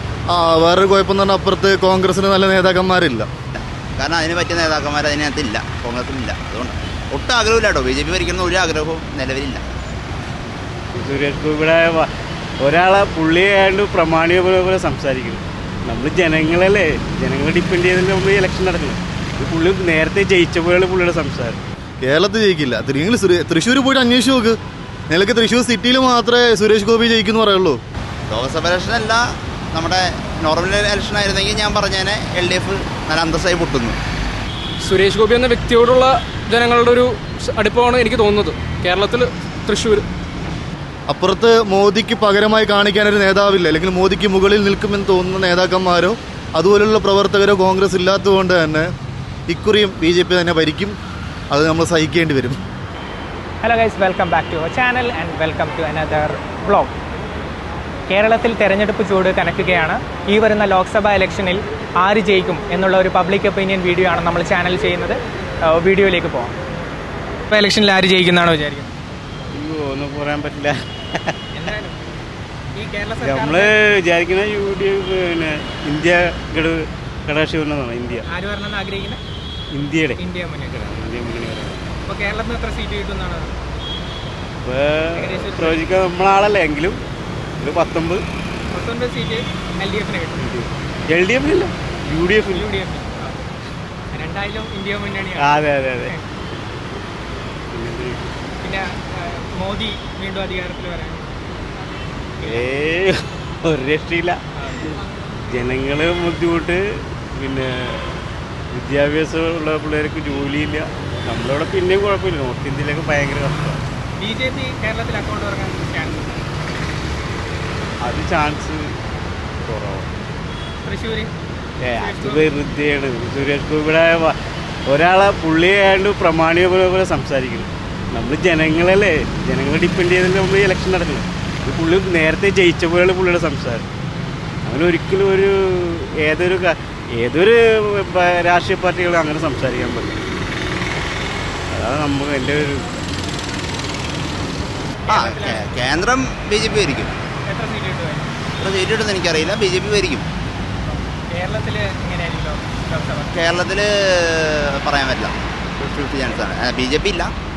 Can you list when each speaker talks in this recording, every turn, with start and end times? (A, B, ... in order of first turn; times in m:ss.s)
0:00.3-0:03.3 A
0:03.6-0:09.6 B
0:11.0-0:12.1 C
0:12.6-0:21.6 C
0:22.0-0:24.6 A
0:25.1-0:27.8 A
0:28.3-0:34.0 B
0:34.8-0:40.1 D
0:41.1-0:48.9 A
0:49.5-0:51.0 A
0:51.5-0:52.6 A
0:53.6-0:56.9 E
0:58.1-1:06.5 E
1:07.5-1:08.9 E
1:09.5-1:11.4 C
1:11.5-1:12.0 E
1:12.8-1:13.7 E
1:13.2-1:18.3 C
1:18.3-1:19.2 E
1:19.7-1:21.9 C
1:20.2-1:20.8 E
1:22.1-1:23.5 E
1:24.6-1:27.0 C
1:25.2-1:25.9 E
1:27.6-1:28.2 C
1:28.7-1:30.5 E
1:30.4-1:32.7 C
1:32.5-1:33.5 E
1:34.1-1:36.2 E
1:35.4-1:36.2 C
1:37.7-1:38.3 C
1:38.6-1:41.3 E
1:42.4-1:44.4 C
1:44.6-1:44.9 E
1:45.5-1:46.8 C
1:47.4-1:48.2 C
1:48.7-1:53.8 C
1:54.2-1:56.4 E
1:58.0-1:59.0 C
1:59.6-2:00.1 C
2:00.8-2:01.3 E
2:01.8-2:04.4 C
2:02.0-2:02.5 E
2:04.9-2:13.9 C
2:14.6-2:20.2 C
2:21.7-2:22.9 C
2:25.1-2:25.7 E
2:25.1-2:27.1 B
2:27.5-2:28.3 E
2:28.6-2:30.3 B
2:30.9-2:33.4 E
2:33.3-2:37.3 B